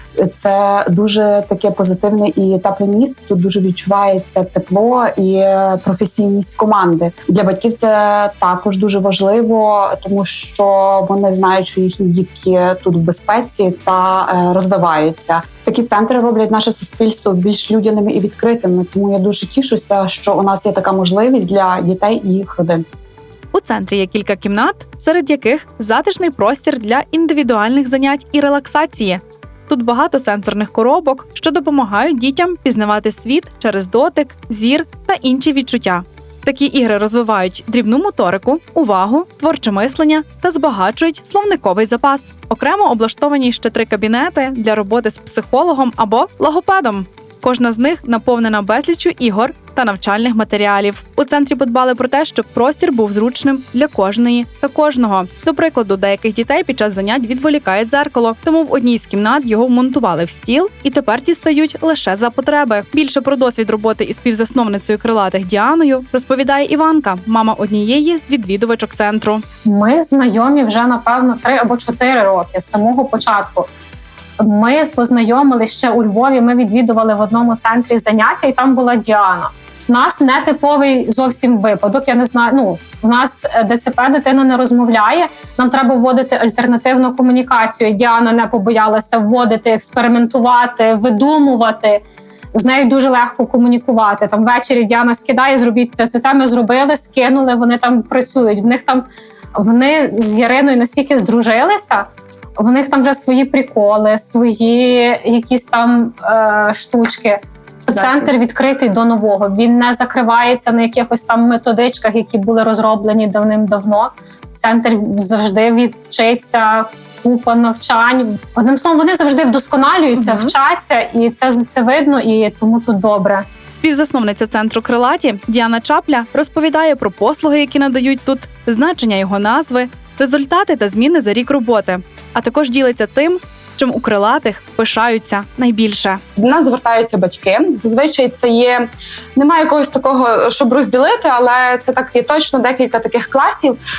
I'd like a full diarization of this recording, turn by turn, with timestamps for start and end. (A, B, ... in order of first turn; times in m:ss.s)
0:00.2-0:22.8 A
0:23.5-1:09.4 B
1:09.6-1:13.7 C
1:14.4-2:03.5 C
2:00.2-2:00.5 B
2:03.7-2:16.2 B
2:16.4-2:17.5 D
2:16.4-2:18.4 A
2:18.2-2:18.6 D
2:19.4-2:23.4 A
2:22.2-2:22.5 D
2:23.4-2:23.6 D